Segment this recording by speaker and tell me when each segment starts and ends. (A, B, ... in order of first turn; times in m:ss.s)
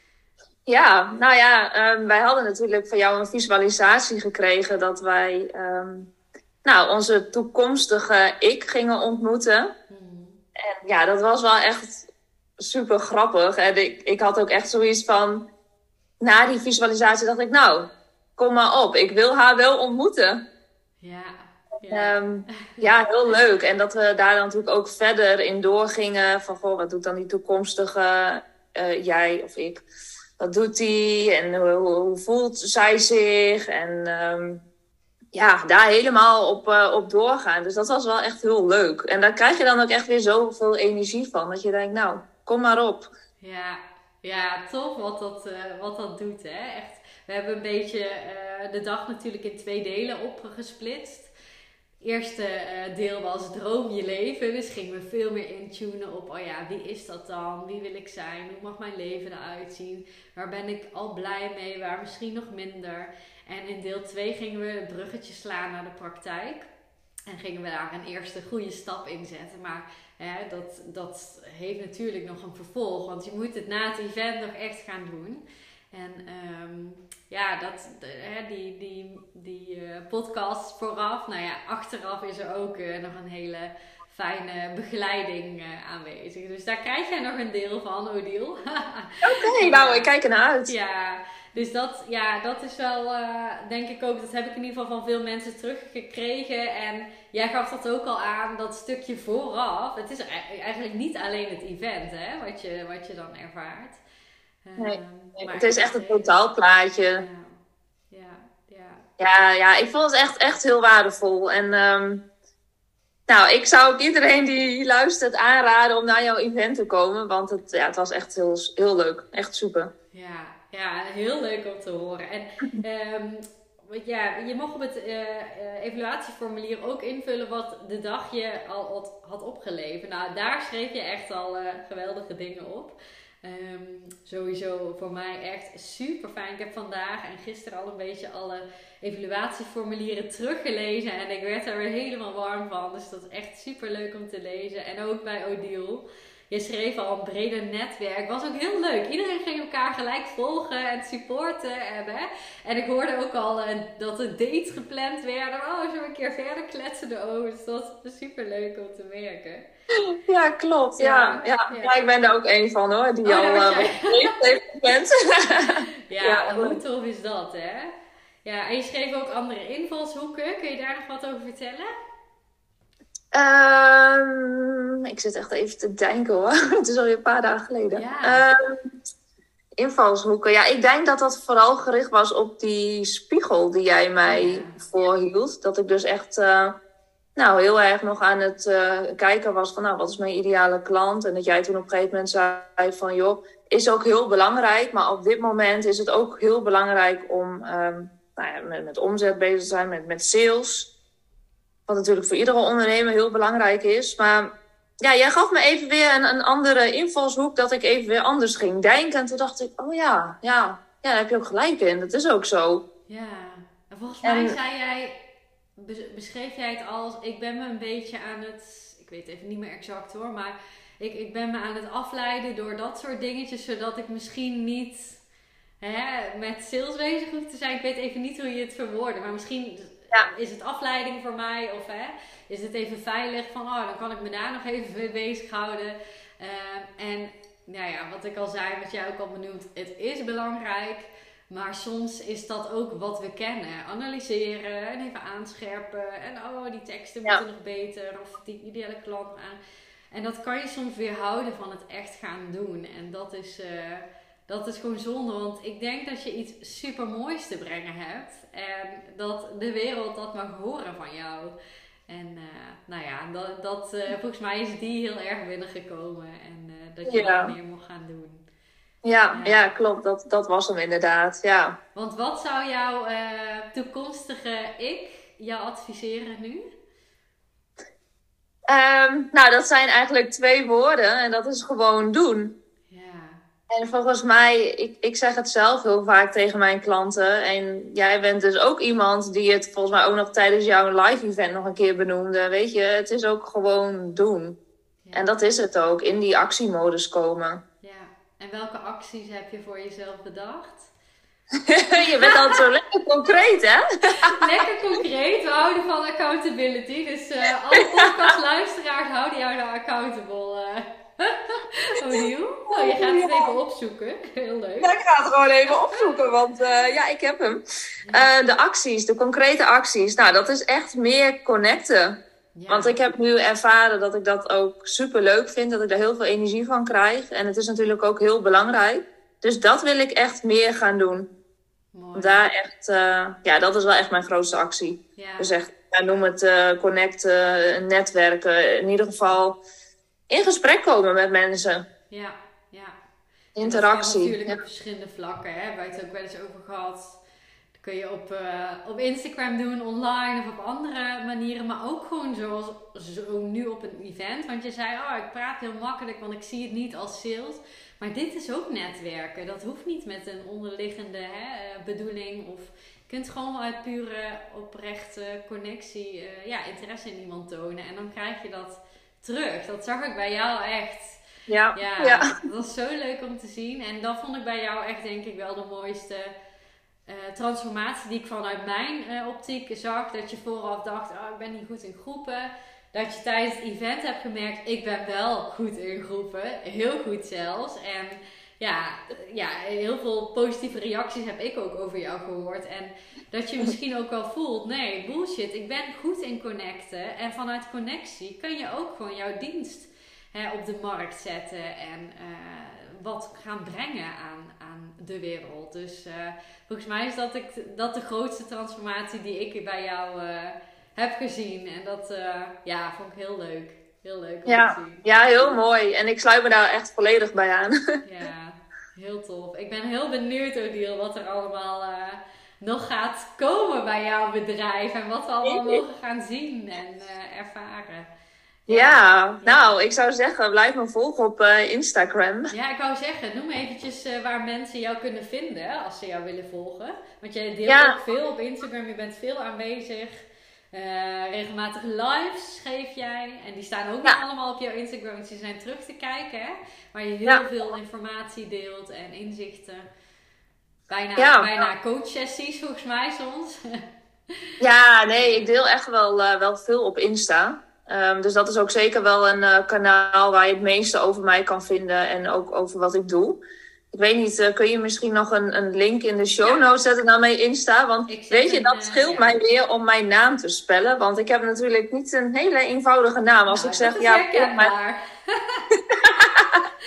0:00.7-0:06.1 A
0:06.6-0:09.7 A
0:09.9-0:10.4 B
0:10.6-0:12.1 A
0:12.6-0:15.5 A
0:16.2-0:20.4 A
0:21.0-0:22.9 B
0:21.9-0:29.8 A
0:30.4-0:34.6 A
0:35.3-0:43.1 A
0:43.4-0:51.3 B
0:52.0-1:06.7 B
1:07.3-1:30.1 B
1:29.2-1:30.7 A
1:30.7-1:44.0 B
1:44.6-1:46.4 B
1:44.8-1:47.2 A
1:47.1-1:47.6 B
1:48.1-1:49.0 B
1:49.2-1:52.2 A
1:53.3-1:59.9 A
2:00.1-2:39.7 B
2:40.3-2:46.8 A
2:41.0-2:42.1 B
2:43.2-2:44.3 B
2:46.1-2:47.9 B
2:48.4-2:51.9 B
2:53.3-2:58.6 A
2:57.9-2:58.4 B
2:59.8-3:06.8 A
3:04.2-3:04.8 B
3:07.4-3:20.9 A
3:21.9-3:32.8 A
3:33.1-3:35.2 B
3:34.2-3:34.6 A
3:35.8-3:45.2 B
3:45.8-4:09.6 B
4:10.1-4:21.5 B
4:22.1-4:28.4 B
4:27.1-4:27.5 A
4:29.0-4:31.8 A
4:29.3-4:29.7 B
4:31.9-4:36.6 B
4:38.7-4:42.6 A
4:42.9-4:43.4 B
4:43.7-4:54.6 A
4:55.0-4:55.3 B
4:55.1-4:57.6 A
4:57.8-5:00.9 B
5:01.6-5:04.4 A
5:02.2-5:02.6 B
5:04.3-5:14.9 B
5:08.0-5:08.3 A
5:12.7-5:13.5 A
5:14.8-5:17.6 A
5:15.7-5:16.1 B
5:18.0-5:18.3 B
5:18.1-5:31.3 A
5:22.6-5:23.0 B
5:31.9-5:32.4 B
5:32.1-5:39.6 A
5:35.2-5:35.5 B
5:40.3-5:41.9 A
5:42.1-5:42.9 B
5:43.6-5:44.6 A
5:43.6-5:47.2 B
5:47.8-6:11.2 B
6:11.5-6:12.3 A
6:11.7-6:16.3 B
6:17.1-6:55.6 B
6:54.5-6:57.7 A
6:58.0-7:08.1 B
7:05.4-7:05.8 A
7:08.7-7:09.8 B
7:08.7-7:12.5 A
7:12.5-7:29.8 B
7:17.7-7:18.0 A
7:30.9-7:33.6 B
7:31.2-7:31.7 A
7:34.6-7:43.4 A
7:35.2-7:35.4 B
7:43.9-7:54.7 A
7:48.1-7:49.4 B
7:53.5-7:55.7 B
7:55.7-7:56.6 A